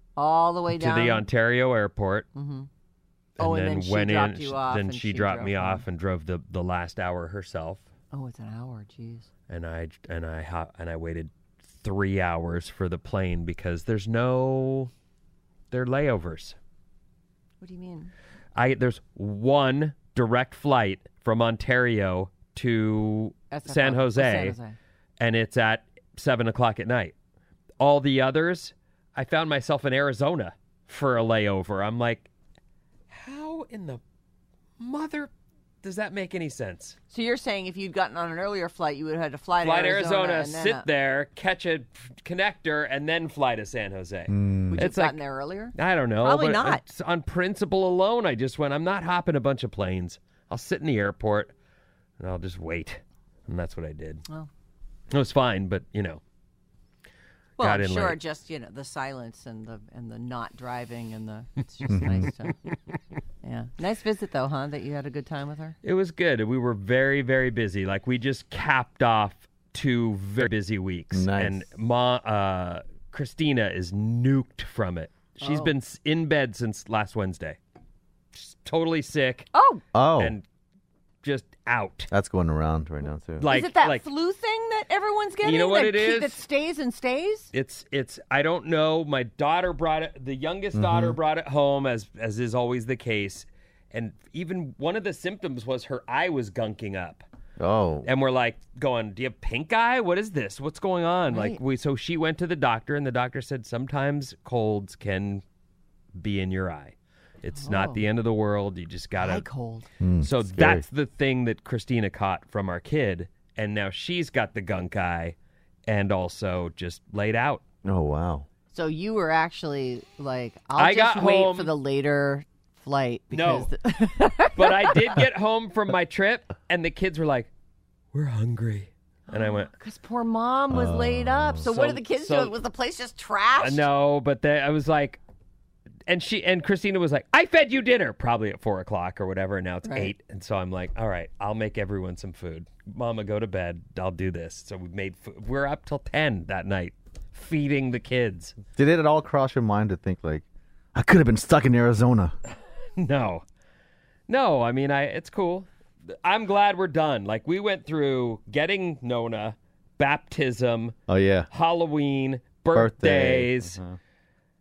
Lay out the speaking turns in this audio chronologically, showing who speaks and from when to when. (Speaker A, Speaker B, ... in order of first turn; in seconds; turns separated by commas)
Speaker A: 0.2-1.3, Speaker B: 0.7-2.3, Speaker A: 2.3-2.7, Speaker B: 3.4-7.9, Speaker A: 3.4-5.9, Speaker A: 8.1-9.3, Speaker B: 9.5-14.9, Speaker B: 15.7-16.6, Speaker A: 17.6-18.1, Speaker B: 18.6-24.6, Speaker A: 23.5-24.8, Speaker B: 25.2-27.1, Speaker B: 27.8-32.3, Speaker B: 33.1-34.0, Speaker B: 34.8-35.3, Speaker B: 35.8-37.0, Speaker A: 37.1-40.9, Speaker B: 39.6-45.2, Speaker C: 44.3-44.9, Speaker A: 44.7-46.8, Speaker B: 45.7-51.5, Speaker B: 52.2-54.2, Speaker B: 55.1-56.2, Speaker B: 57.6-58.2, Speaker A: 57.6-62.6, Speaker C: 61.9-62.3, Speaker A: 63.4-65.8, Speaker B: 65.8-77.6, Speaker C: 71.1-71.7, Speaker A: 75.4-75.7, Speaker B: 78.3-79.5, Speaker A: 79.5-79.8, Speaker C: 79.9-80.4, Speaker B: 80.2-80.5, Speaker B: 81.2-82.1, Speaker C: 82.1-83.5, Speaker B: 83.4-84.1, Speaker A: 83.5-87.5, Speaker B: 85.4-86.4, Speaker B: 87.5-97.2, Speaker C: 90.7-91.2, Speaker C: 97.6-98.1, Speaker B: 98.0-105.4, Speaker A: 101.3-101.6, Speaker B: 106.2-109.5, Speaker A: 107.5-108.0, Speaker A: 109.2-109.9, Speaker C: 110.0-110.9, Speaker B: 110.2-117.6, Speaker C: 117.8-118.5, Speaker A: 118.7-125.2, Speaker B: 120.8-121.7, Speaker B: 123.3-123.7, Speaker B: 124.5-127.5, Speaker B: 128.1-129.7, Speaker A: 129.3-133.9, Speaker C: 130.7-131.7, Speaker B: 131.6-132.6, Speaker B: 133.6-135.2, Speaker B: 136.1-148.6, Speaker A: 139.8-140.1, Speaker C: 148.8-152.3, Speaker B: 153.0-153.4, Speaker B: 154.3-160.9, Speaker C: 161.1-161.5, Speaker B: 161.5-163.8, Speaker C: 162.7-164.0